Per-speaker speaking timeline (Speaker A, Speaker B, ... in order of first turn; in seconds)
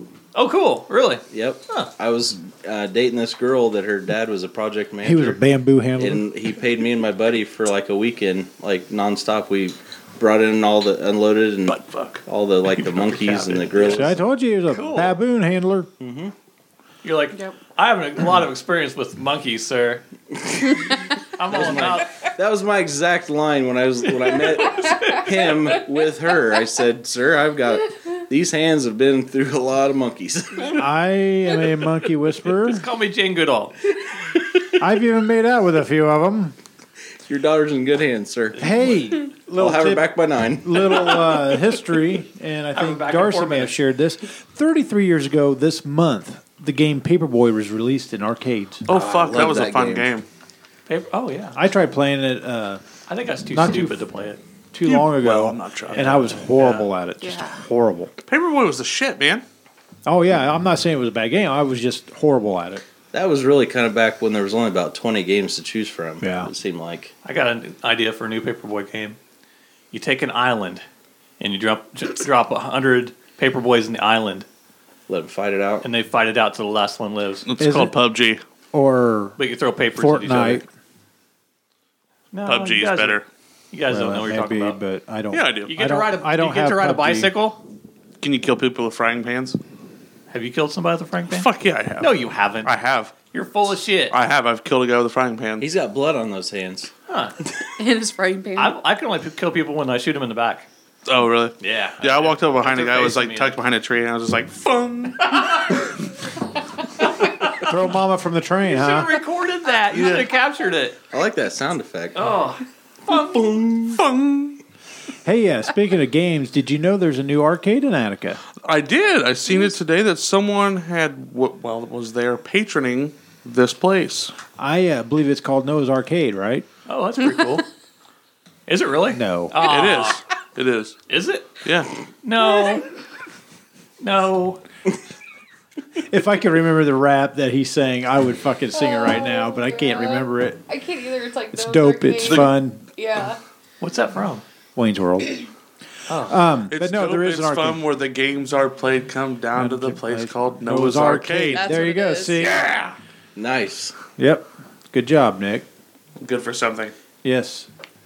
Speaker A: 0.3-1.9, 12.7-14.1, 14.7-15.2, 17.0-20.0, 21.4-22.1, 32.5-33.8, 38.7-39.0, 42.8-43.7, 50.9-51.6, 53.1-54.4, 55.9-56.9, 67.2-69.2, 69.9-70.8, 71.4-74.5, 75.8-77.5, 79.4-80.7, 82.3-83.2, 83.7-84.8, 85.7-87.6, 90.3-94.2, 97.1-97.3, 98.6-100.7, 101.6-103.6, 105.2-105.8, 107.0-107.7, 108.7-111.0, 112.2-113.5, 126.9-127.7, 128.7-130.2, 131.1-131.5, 132.2-132.8, 134.0-134.6, 143.8-144.4, 146.1-146.4
Speaker B: 1.3-5.4, 6.0-14.2, 16.0-16.3, 21.5-30.8, 37.3-38.7, 39.6-41.3, 48.9-50.1, 63.1-67.1, 75.1-75.8, 95.6-96.9, 111.1-112.4, 113.1-114.0, 153.4-153.9
Speaker C: 5.0-6.3, 13.9-15.9, 30.8-32.9, 34.8-36.6, 38.6-48.9, 51.5-52.8, 53.5-54.0, 54.7-58.1, 60.1-62.8, 66.2-66.5, 77.6-78.0, 78.7-79.4, 80.0-80.7, 83.9-87.4, 107.6-109.2, 115.2-118.4, 124.6-126.7, 129.1-129.6, 136.1-140.6, 141.5-142.8, 144.8-145.5, 146.2-147.8, 149.5-152.7, 154.2-155.7, 157.2-157.7
Speaker D: 11.7-12.2, 48.9-50.2, 54.9-56.1, 58.3-59.4, 77.5-78.4, 82.5-83.3, 85.3-85.7, 88.2-89.6, 91.3-93.2, 94.1-95.7, 101.1-105.8, 109.9-110.3, 113.8-114.6, 118.6-124.3, 129.6-131.0, 131.6-131.9, 142.2-142.5, 146.7-151.8, 152.4-152.9, 156.2-156.9
Speaker E: 24.7-25.2, 57.2-57.6, 97.8-98.8, 138.7-143.4, 151.5-152.6